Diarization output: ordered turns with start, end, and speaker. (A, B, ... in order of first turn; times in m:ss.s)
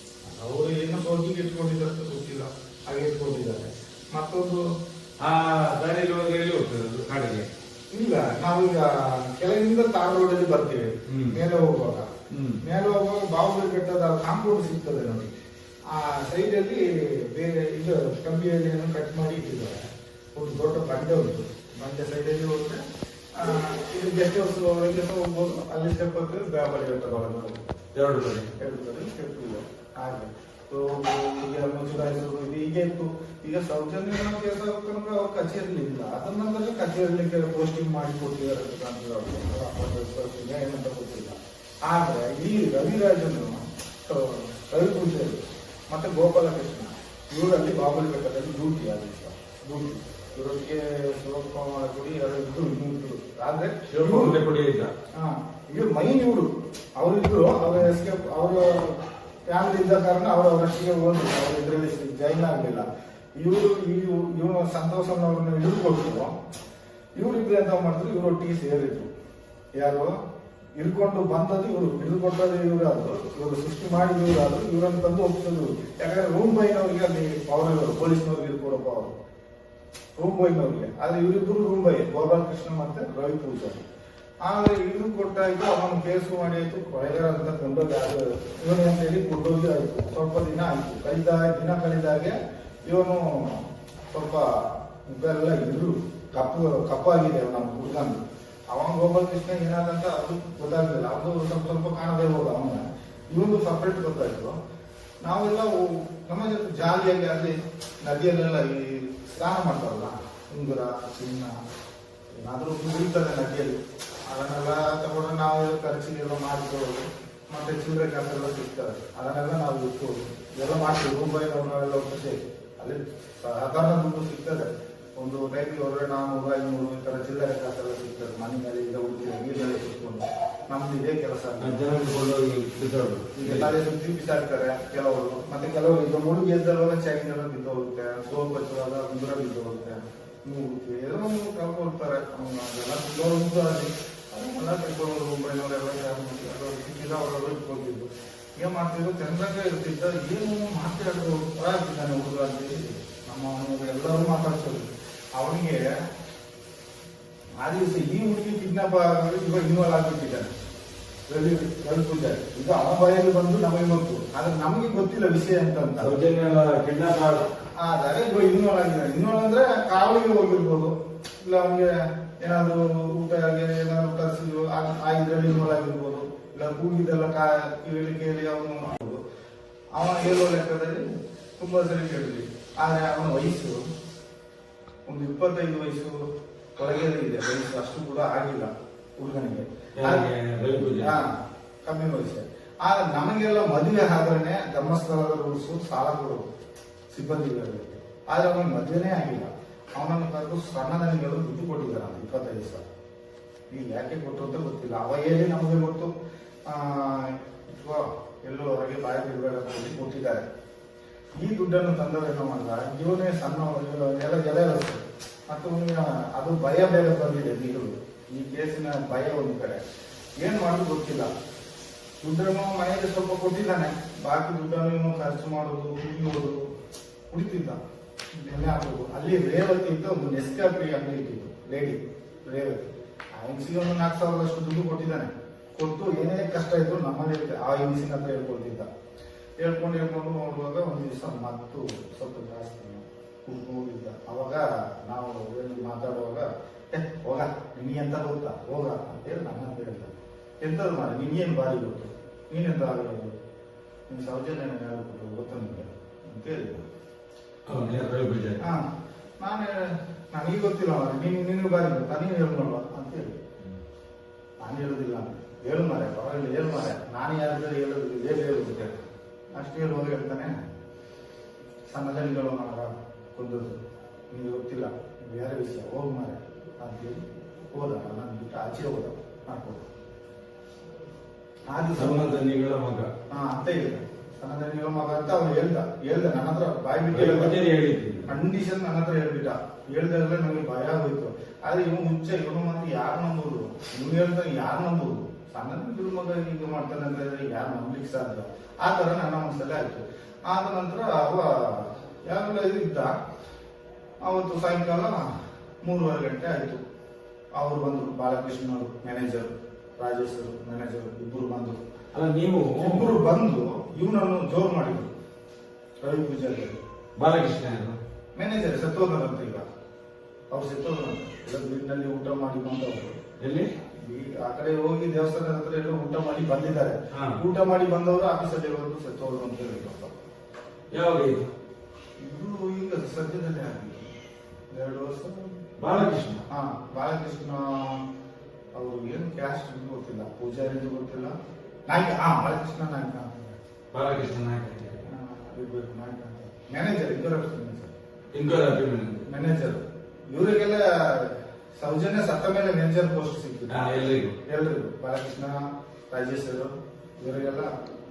0:00.3-0:04.6 A
0:05.2-0:07.5 B
0:07.9-0:12.1 A
0:11.1-0:11.4 B
0:12.3-0:12.6 B
0:12.6-0:15.3 A
0:15.9-0:22.8 A
0:23.4-0:27.6 A
0:27.9-0:28.5 B
0:28.6-0:54.4 A
0:53.9-0:54.9 B
0:55.1-1:02.9 A
1:03.4-1:06.4 A
1:07.2-1:09.1 A
1:09.8-1:10.2 A
1:10.8-1:19.1 A
1:20.2-1:23.8 A
1:24.4-1:44.6 A
1:45.2-1:51.6 A
1:52.3-2:11.9 A
2:11.6-2:13.7 B
2:13.4-2:35.8 A
2:37.6-2:40.5 A
2:41.3-2:46.2 A
2:46.0-2:47.5 B
2:47.8-2:59.2 A
3:00.0-3:01.0 A
3:01.6-3:03.8 A
3:05.1-3:06.2 A
3:06.8-3:10.3 A
3:10.0-3:11.1 B
3:11.0-3:16.5 A
3:17.1-3:22.8 A
3:23.7-3:26.1 A
3:26.7-3:30.5 A
3:31.4-3:39.8 A
3:40.4-3:41.3 A
3:42.2-3:46.6 A
3:47.3-3:47.8 A
3:48.4-3:58.9 A
3:59.6-4:10.1 A
4:10.6-4:13.4 A
4:14.1-4:16.9 A
4:17.7-4:18.6 B
4:18.6-4:18.9 A
4:19.4-4:23.4 A
4:24.6-4:29.0 A
4:29.5-4:30.6 A
4:31.9-4:33.8 A
4:34.3-4:39.8 A
4:41.7-4:42.3 A
4:42.0-4:43.1 B
4:43.3-4:47.6 A
4:47.1-4:48.3 B
4:48.3-5:03.1 A
5:04.2-5:05.3 A
5:05.8-5:06.8 A
5:07.6-5:11.8 A
5:12.1-5:13.1 B
5:12.8-5:15.1 A
5:16.0-5:16.8 A
5:17.2-5:18.0 B
5:18.4-5:19.6 A
5:20.5-5:23.2 A
5:23.4-5:23.7 B
5:24.0-5:30.1 A
5:27.1-5:27.4 B
5:30.9-5:31.5 B
5:32.2-5:34.1 A
5:34.7-5:35.6 A
5:35.8-5:36.4 B
5:36.5-5:38.0 A
5:38.8-5:41.4 A
5:41.9-5:43.6 A
5:43.9-5:45.0 B
5:45.1-5:47.9 A
5:48.3-5:49.2 B
5:49.2-5:53.9 A
5:53.7-5:54.4 B
5:54.5-5:57.7 A